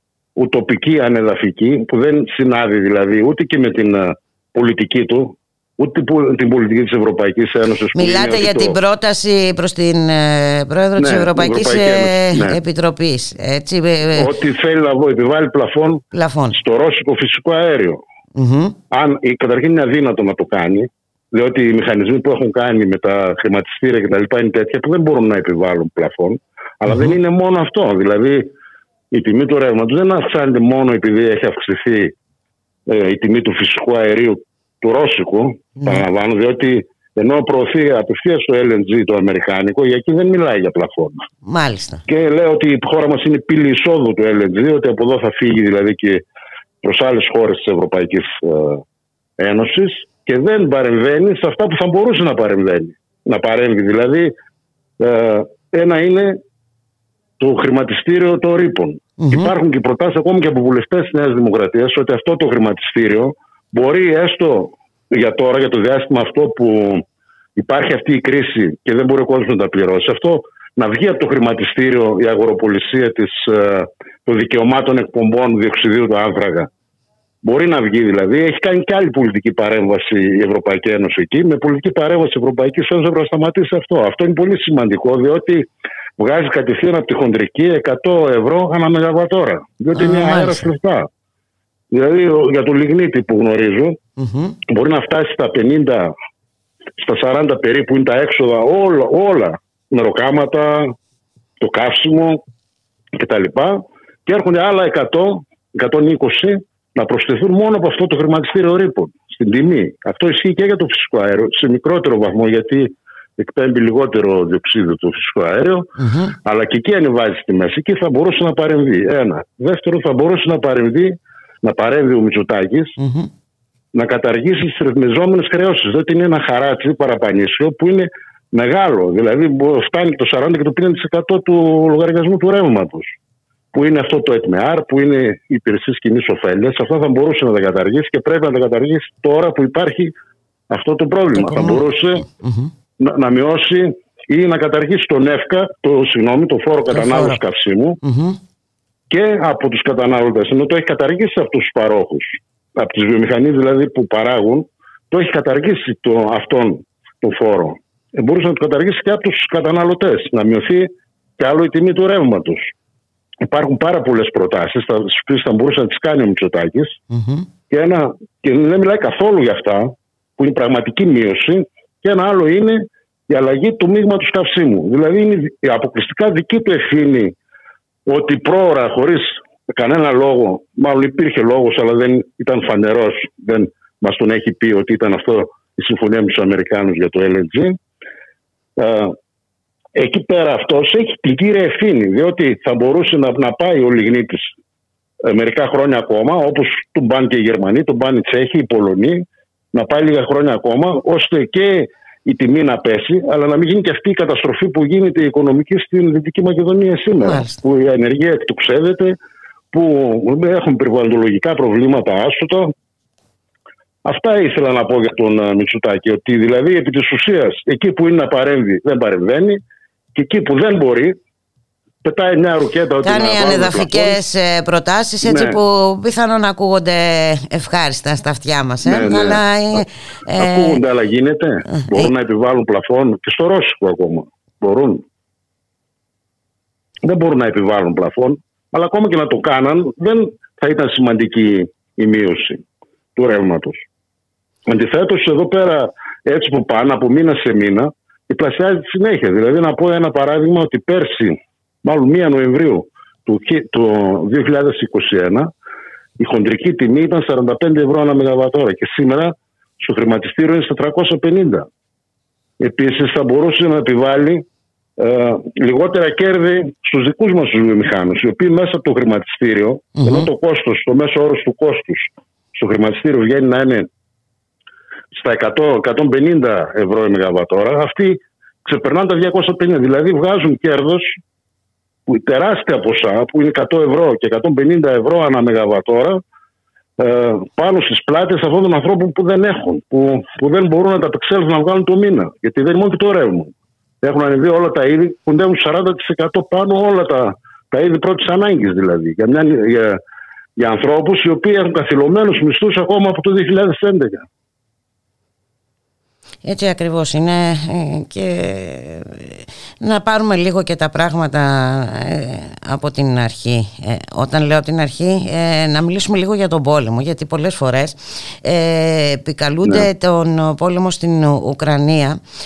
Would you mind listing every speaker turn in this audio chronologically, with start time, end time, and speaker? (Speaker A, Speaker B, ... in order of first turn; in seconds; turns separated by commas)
Speaker A: 0.4-8.8, Speaker B: 8.0-14.3, Speaker A: 11.0-12.6, Speaker A: 14.2-18.0, Speaker B: 16.1-16.6, Speaker B: 18.4-18.8, Speaker A: 18.9-28.5, Speaker B: 26.9-27.2, Speaker A: 29.1-32.1, Speaker A: 32.9-41.3, Speaker B: 35.8-36.0, Speaker B: 41.5-42.0, Speaker A: 42.1-46.2, Speaker A: 46.8-48.8, Speaker A: 49.4-54.3, Speaker A: 55.0-56.4, Speaker A: 57.4-67.0, Speaker B: 59.2-59.5, Speaker A: 67.6-76.7, Speaker A: 77.4-91.1, Speaker B: 89.9-90.7, Speaker A: 91.9-94.0, Speaker B: 94.2-94.6, Speaker A: 94.7-96.1, Speaker A: 97.0-100.9, Speaker A: 101.6-102.4, Speaker A: 103.1-115.9, Speaker B: 116.0-116.3, Speaker A: 116.5-123.0, Speaker B: 123.0-123.3, Speaker A: 123.9-133.2, Speaker A: 133.7-140.1, Speaker A: 140.7-142.3, Speaker B: 141.3-142.7, Speaker A: 143.0-148.0, Speaker B: 146.9-147.4, Speaker B: 148.0-148.4, Speaker A: 149.1-162.7, Speaker A: 163.4-167.0, Speaker B: 167.1-167.5, Speaker A: 167.7-177.3, Speaker A: 178.1-187.8, Speaker A: 188.8-189.2, Speaker A: 190.0-194.5, Speaker A: 195.2-209.2, Speaker B: 207.2-207.6, Speaker A: 209.7-212.7, Speaker A: 214.1-219.6, Speaker A: 220.2-221.2, Speaker A: 222.0-224.2, Speaker B: 223.0-230.8, Speaker A: 225.2-225.6, Speaker A: 228.8-229.8, Speaker A: 230.3-235.0, Speaker B: 231.7-232.1, Speaker A: 237.0-242.6, Speaker A: 243.2-243.9, Speaker A: 244.7-255.5, Speaker A: 256.2-261.7, Speaker A: 262.6-264.5, Speaker A: 265.0-273.9, Speaker B: 270.0-270.3, Speaker A: 275.1-281.2, Speaker A: 282.1-286.2, Speaker A: 287.0-300.0, Speaker A: 300.6-304.2, Speaker B: 306.4-322.2